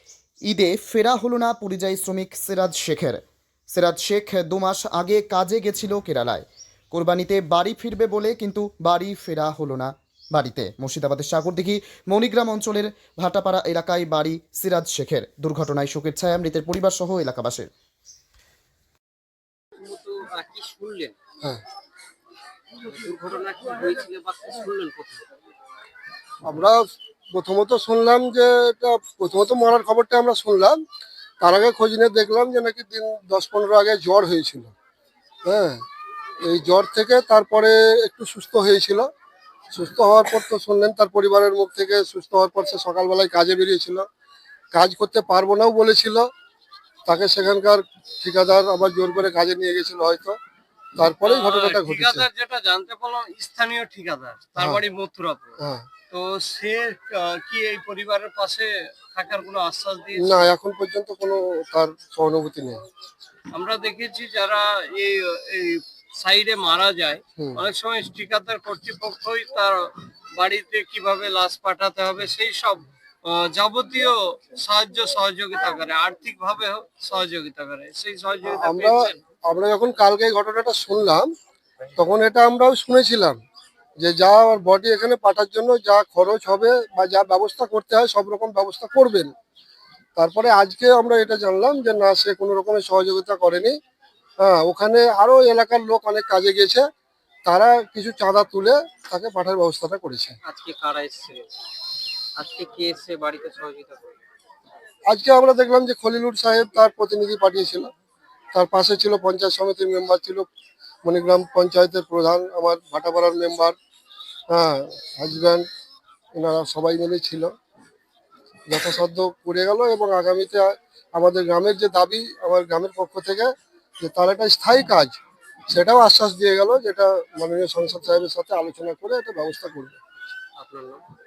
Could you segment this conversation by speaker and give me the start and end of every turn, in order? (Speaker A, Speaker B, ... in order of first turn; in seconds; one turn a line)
Speaker A: 0.5-3.2
Speaker A: 3.7-17.7
Speaker B: 19.8-21.1
Speaker B: 22.8-25.2
Speaker C: 26.4-26.8
Speaker C: 27.3-30.8
Speaker C: 31.4-34.7
Speaker C: 35.5-35.8
Speaker C: 36.4-39.1
Speaker C: 39.7-44.0
Speaker C: 44.7-46.3
Speaker C: 47.0-50.4
Speaker C: 51.0-52.2
Speaker B: 51.2-55.6
Speaker C: 55.6-55.9
Speaker B: 56.1-60.4
Speaker C: 60.2-62.8
Speaker B: 63.5-79.2
Speaker C: 78.5-81.3
Speaker C: 82.0-83.4
Speaker C: 84.0-89.3
Speaker C: 90.2-93.7
Speaker C: 94.4-96.8
Speaker C: 97.5-100.4
Speaker B: 100.4-101.5
Speaker B: 102.4-104.2
Speaker C: 105.1-107.9
Speaker C: 108.5-110.5
Speaker C: 111.0-113.8
Speaker C: 114.5-115.7
Speaker C: 116.3-117.5
Speaker C: 118.7-125.2
Speaker C: 125.7-130.0
Speaker B: 130.6-131.0